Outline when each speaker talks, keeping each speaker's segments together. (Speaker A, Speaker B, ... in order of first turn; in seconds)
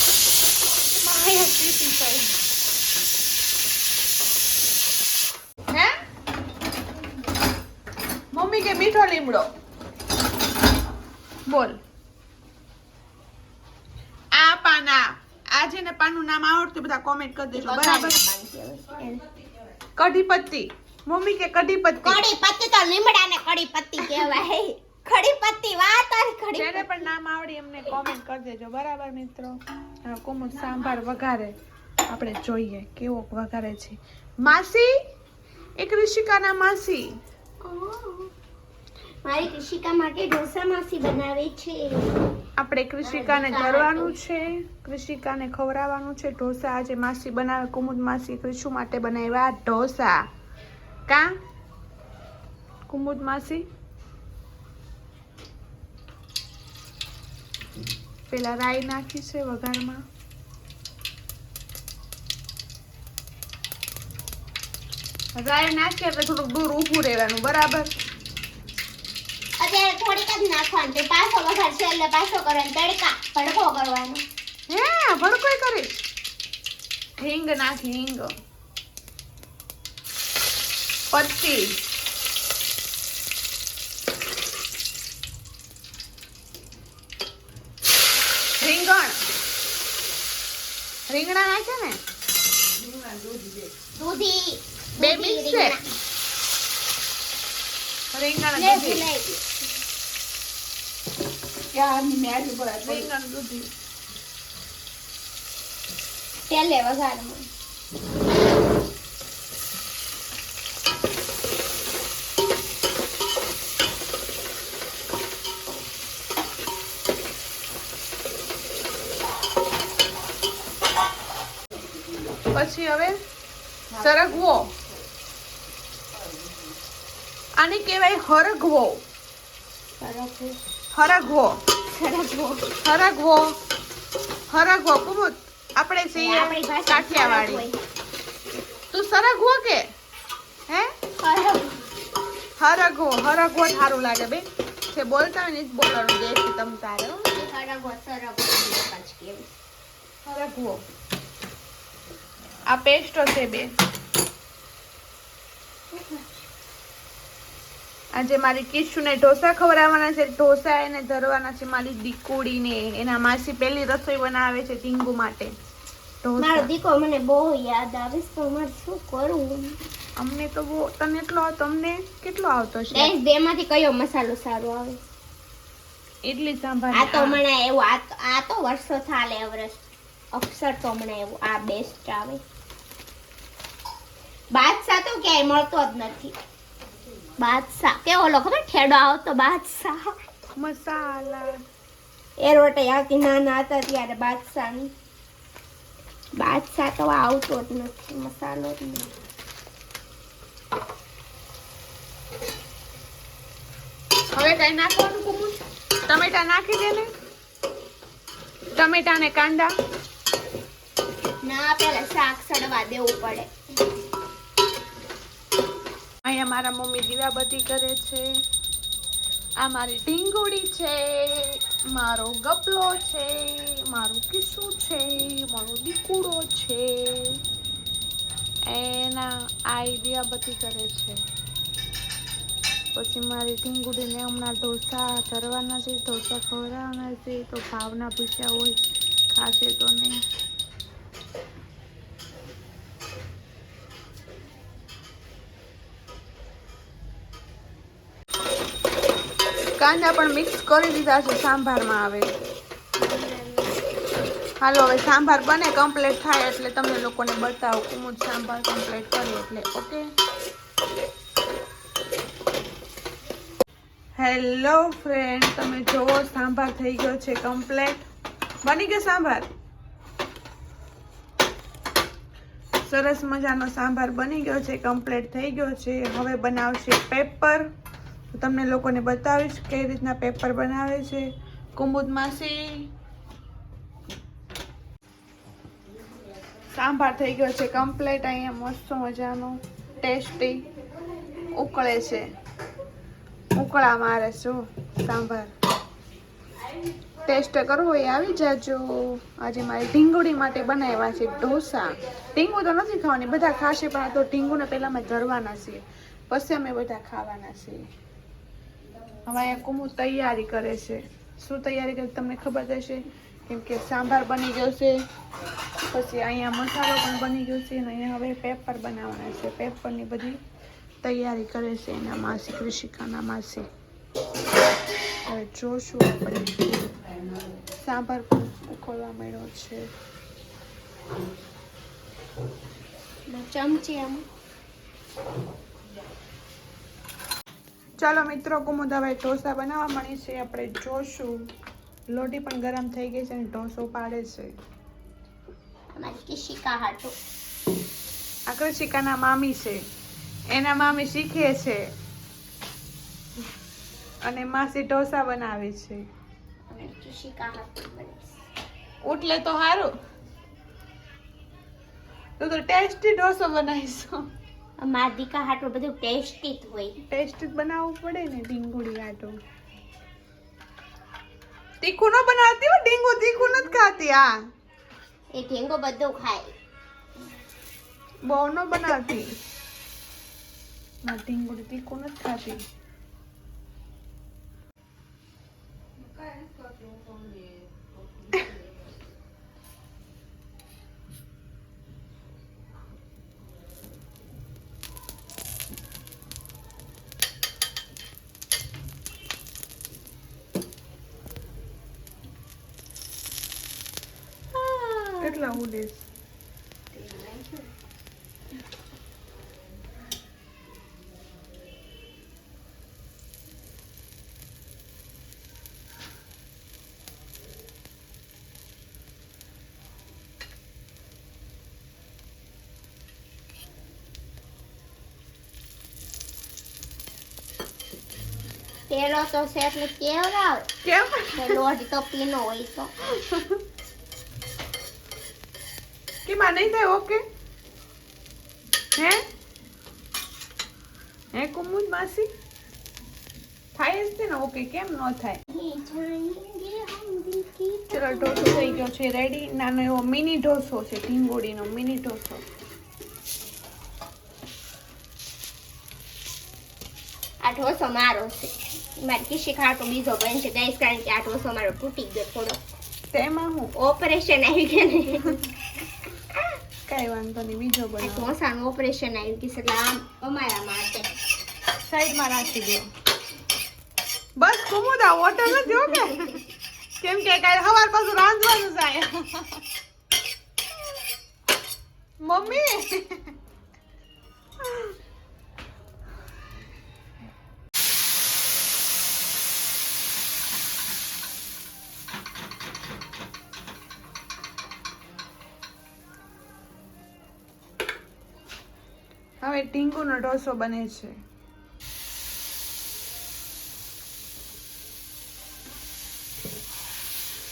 Speaker A: 1.0-2.3, 8.3-9.5, 11.5-11.8, 14.3-18.2, 20.0-22.2, 26.6-31.5, 32.1-34.9, 35.8-37.1, 42.6-50.2, 51.1-51.3, 52.9-53.6, 58.3-60.0, 65.4-67.9, 74.7-76.0, 77.2-78.3, 81.1-81.8, 88.6-89.2, 91.1-92.0, 95.0-95.8, 98.1-99.1, 102.8-103.7, 122.5-123.2, 124.0-124.7, 127.6-129.0, 130.9-131.6, 132.8-133.5, 134.5-137.7, 138.9-139.9, 142.6-147.3, 150.2-150.8, 152.7-153.7, 158.2-165.5, 166.2-166.7, 170.2-173.1, 176.2-177.4, 190.6-191.6, 204.3-207.1, 208.8-209.7, 216.2-218.3, 219.6-227.4, 228.7-231.2, 232.9-238.8, 239.3-240.2, 249.8-252.3, 254.6-260.1, 264.2-268.1, 268.6-269.5, 272.8-277.7, 278.3-282.9, 286.7-290.6, 291.5-292.2, 293.6-295.5, 297.2-307.8, 309.3-315.0, 315.9-320.4, 321.0-323.7, 325.3-326.7, 327.8-329.9, 338.0-341.4, 342.1-344.5, 348.5-349.8, 350.5-351.8, 354.2-356.0, 359.1-359.9, 362.4-364.2, 367.0-369.3, 371.8-374.3, 378.3-379.2, 381.0-382.6, 405.2-406.1, 430.8-431.6, 433.2-433.6, 436.3-437.2, 441.4-442.3, 443.8-445.4, 447.9-452.4, 463.1-463.7, 466.9-468.3, 471.9-472.9, 474.4-476.4, 477.0-479.5, 482.2-483.3, 484.6-484.9, 499.4-501.1
Speaker B: 17.6-19.2, 22.0-27.1, 37.6-38.3, 39.2-42.1, 43.0-44.1, 69.6-74.3, 94.0-95.8, 98.6-99.4, 106.5-107.5, 123.9-124.3, 130.0-130.6, 131.9-132.7, 136.2-137.8, 141.2-141.8, 147.3-149.5, 155.9-156.2, 166.4-169.8, 172.9-175.0, 176.9-179.8, 180.3-182.4, 184.5-186.3, 187.4-190.1, 192.4-194.9, 196.4-199.1, 211.4-213.5, 253.0-253.8, 333.3-334.3, 345.9-347.2, 356.7-358.4, 364.8-367.0, 375.3-376.5, 404.5-405.6, 406.9-407.7, 428.9-430.7, 431.3-432.9, 445.5-448.8, 457.4-462.6, 463.8-465.4, 468.0-471.1
Speaker C: 92.8-93.7, 101.7-103.1, 386.0-388.9